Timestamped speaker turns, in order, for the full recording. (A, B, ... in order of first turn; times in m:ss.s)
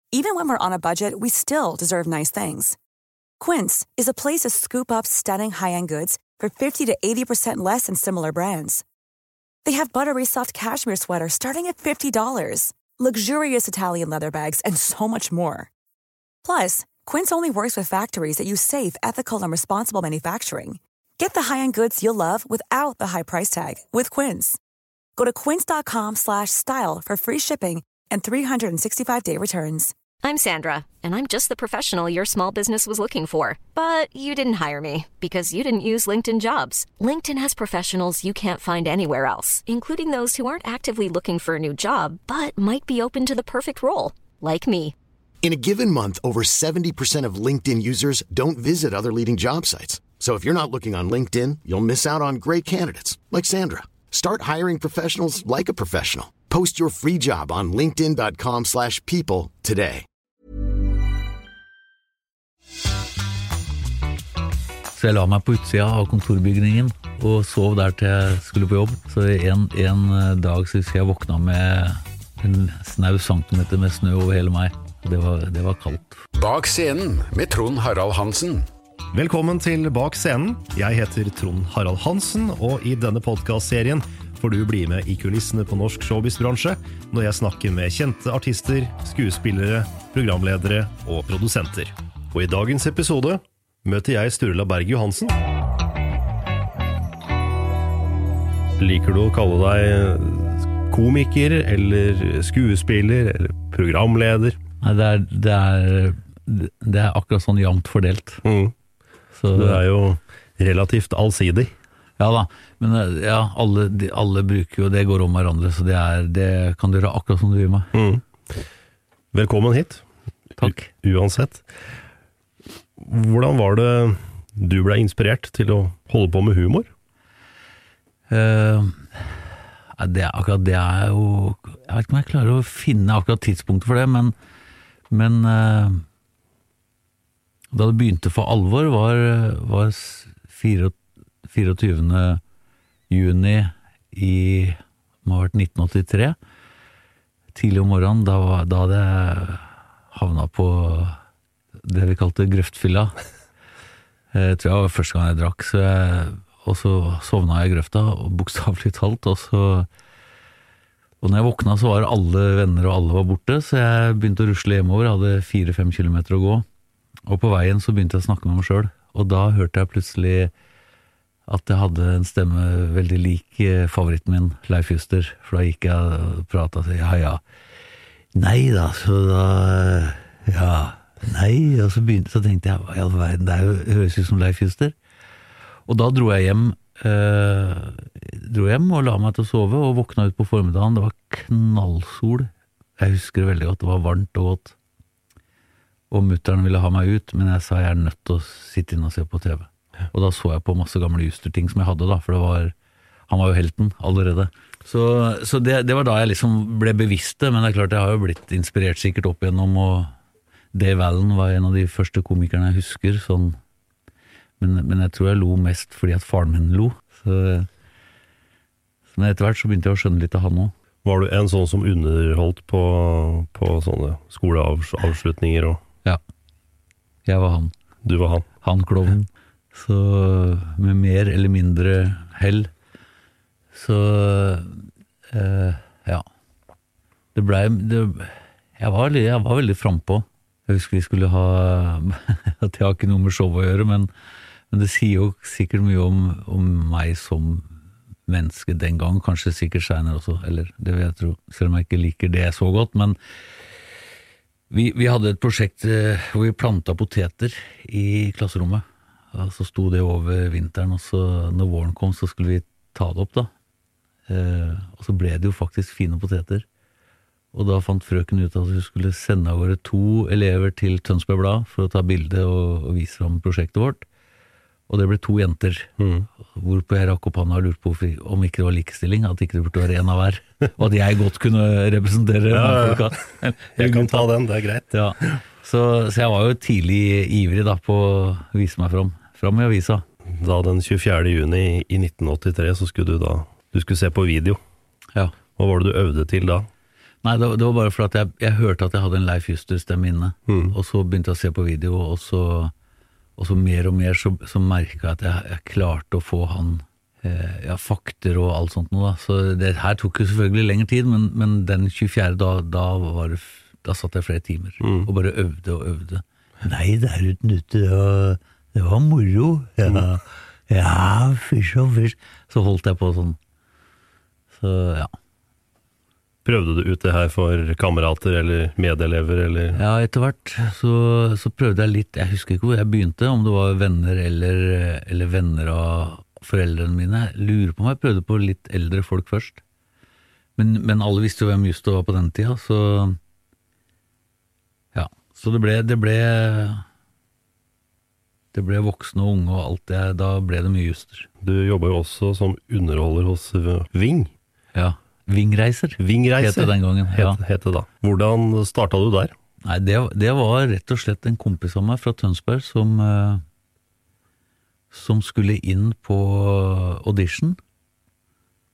0:00.1-0:02.8 A
0:03.4-0:08.8 A
0:09.6-0:15.7 A
0:16.4-0:24.6 A
0:25.2-0:29.9 A
0:30.2-0:44.9 B
0:45.4-1:00.0 C
1:04.9-1:16.2 D
1:16.3-1:18.6 E
1:19.1-1:35.4 F
1:38.8-1:44.6 F
1:44.8-1:48.4 D
1:48.4-1:48.7 F
1:49.3-1:49.8 D
1:49.5-1:51.7 F
1:52.2-1:57.9 D
1:57.9-1:58.2 F
1:59.3-2:00.0 F
2:00.6-2:01.7 F
2:00.6-2:00.9 D
2:03.0-2:06.9 F
2:08.3-2:09.3 D
2:10.0-2:14.3 D
2:15.1-2:16.0 D
2:17.7-2:20.9 D
2:21.5-2:22.4 D
2:23.1-2:26.4 D
2:27.5-2:31.2 D
2:31.8-2:33.2 D
2:34.3-2:39.9 D
2:41.2-2:46.6 D
2:47.3-2:50.5 D
2:51.5-2:57.4 D
2:58.3-3:04.9 D
3:05.9-3:14.7 D
3:16.1-3:22.7 D
3:23.3-3:30.1 D
3:30.7-3:33.6 D
3:34.6-3:37.7 D
3:39.1-3:40.7 D
3:41.0-3:45.8 F
3:47.2-3:47.7 D
3:48.0-3:48.5 F
3:48.6-3:52.7 D
3:53.7-3:56.2 D
3:57.3-4:04.1 D
4:04.7-4:07.7 D
4:08.3-4:13.2 D
4:14.7-4:23.5 D
4:24.3-4:26.6 D
4:27.5-4:34.0 D
4:34.9-4:35.9 D
4:36.0-4:36.3 F
4:36.4-4:44.3 D
4:42.5-4:43.1 F
4:43.7-4:45.4 F
4:44.9-4:50.0 D
4:50.3-4:54.6 F
4:55.6-4:56.7 F
4:57.2-5:02.7 D
5:00.5-5:00.7 F
5:03.4-5:23.4 D
5:14.8-5:15.1 F
5:19.8-5:20.0 F
5:24.5-5:25.1 D
5:26.4-5:29.8 F
5:29.7-5:39.6 D
5:40.6-5:43.2 D
5:44.9-5:46.8 D
5:48.5-5:51.3 D
5:51.4-5:54.3 F
5:54.7-5:57.4 D
5:56.0-5:59.3 F
5:59.6-6:03.4 D
6:04.9-6:07.6 D